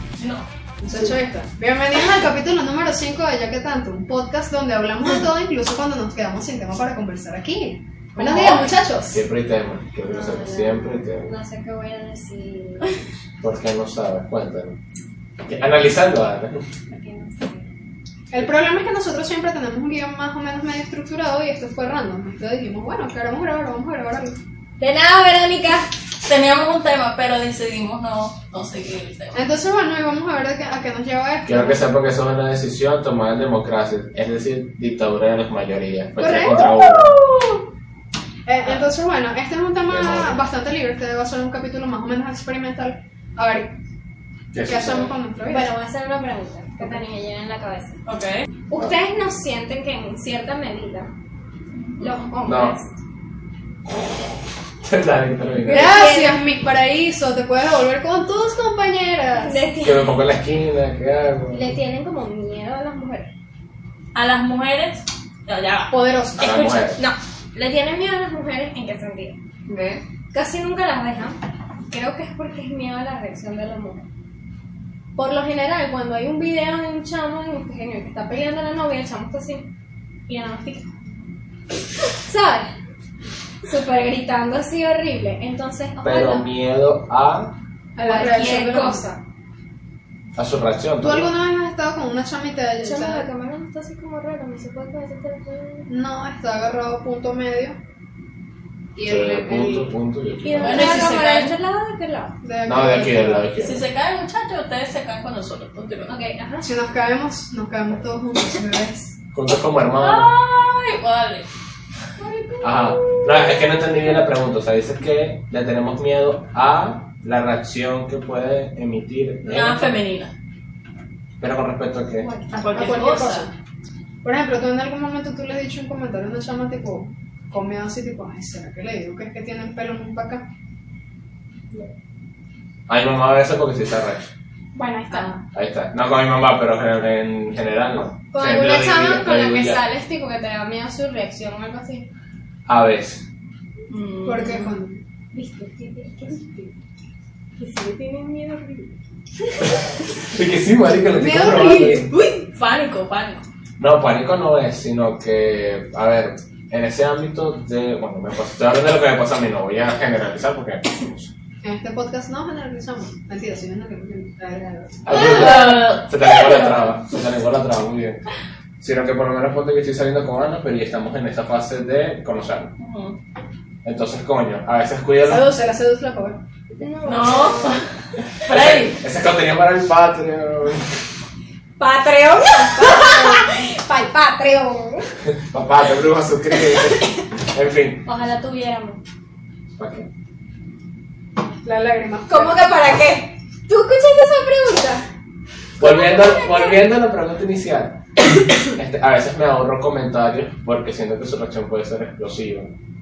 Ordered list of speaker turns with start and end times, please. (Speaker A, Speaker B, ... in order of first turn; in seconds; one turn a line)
Speaker A: 0.2-0.5
Speaker B: 0.8-9.2
Speaker A: 8.2-8.7
Speaker C: 8.2-8.6
Speaker D: 9.1-11.3
Speaker C: 10.1-12.9
Speaker D: 13.4-14.8
Speaker D: 15.5-16.6
Speaker C: 16.9-17.7
Speaker B: 18.3-24.4
Speaker C: 24.8-25.9
Speaker A: 26.2-29.4
Speaker B: 29.3-31.8
Speaker D: 31.4-37.1
Speaker B: 36.2-37.6
Speaker B: 38.5-43.8
Speaker D: 39.9-40.4
Speaker D: 44.5-45.1
Speaker B: 44.6-45.7
Speaker C: 45.5-48.0
Speaker A: 48.1-48.4
Speaker C: 48.7-51.1
Speaker A: 51.7-52.1
Speaker C: 52.0-52.9
Speaker D: 52.5-52.8
Speaker D: 54.8-56.0
Speaker C: 55.6-56.4
Speaker B: 55.7-59.6
Speaker C: 59.4-60.2
Speaker D: 59.8-61.7
Speaker C: 61.5-63.3
Speaker A: 64.2-66.6
Speaker B: 65.9-66.9
Speaker D: 66.4-67.0
Speaker C: 67.0-69.4
Speaker A: 69.7-70.0
Speaker C: 70.3-74.1
Speaker C: 75.2-79.7
Speaker C: 80.3-80.9
Speaker C: 82.2-82.7
Speaker C: 83.6-86.5
Speaker D: 86.0-87.5
Speaker B: 88.0-89.0
Speaker C: 88.0-89.2
Speaker D: 90.4-91.3
Speaker B: 91.0-93.3
Speaker C: 92.8-95.9
Speaker B: 95.9-97.8
Speaker B: 99.0-99.9
Speaker D: 99.0-101.1
Speaker C: 100.4-102.3
Speaker A: 100.6-101.5
Speaker B: 100.8-101.0
Speaker B: 102.4-103.5
Speaker D: 102.7-103.8
Speaker A: 103.6-106.2
Speaker C: 106.1-106.7
Speaker B: 106.6-109.1
Speaker D: 109.3-110.3
Speaker A: 110.0-111.5
Speaker C: 112.2-113.2
Speaker D: 112.6-119.9
Speaker A: 119.4-120.3
Speaker D: 121.4-122.3
Speaker C: 122.2-122.6
Speaker A: 122.5-123.5
Speaker B: 122.7-123.5
Speaker B: 124.2-130.5
Speaker D: 132.9-134.3
Speaker C: 134.8-135.3
Speaker A: 135.1-135.4
Speaker D: 135.5-139.8
Speaker C: 138.3-142.1
Speaker D: 142.7-143.2
Speaker A: 143.9-144.7
Speaker B: 144.2-145.0
Speaker C: 145.3-146.7
Speaker C: 147.6-148.9
Speaker D: 149.6-152.1
Speaker B: 151.1-152.4
Speaker A: 152.5-153.4
Speaker D: 153.8-161.3
Speaker B: 161.6-165.3
Speaker D: 165.1-168.2
Speaker A: 165.1-166.9
Speaker D: 168.8-172.7
Speaker A: 172.8-173.2
Speaker D: 173.8-175.5
Speaker B: 175.2-176.4
Speaker C: 176.8-177.8
Speaker A: 177.1-177.9
Speaker A: 178.4-179.0
Speaker D: 178.5-180.9
Speaker C: 181.8-185.1
Speaker D: 185.2-188.1
Speaker C: 188.1-189.0
Speaker D: 189.8-190.1
Speaker B: 191.6-192.6
Speaker C: 192.3-195.1
Speaker D: 195.8-198.1
Speaker C: 195.8-196.8
Speaker D: 198.6-202.7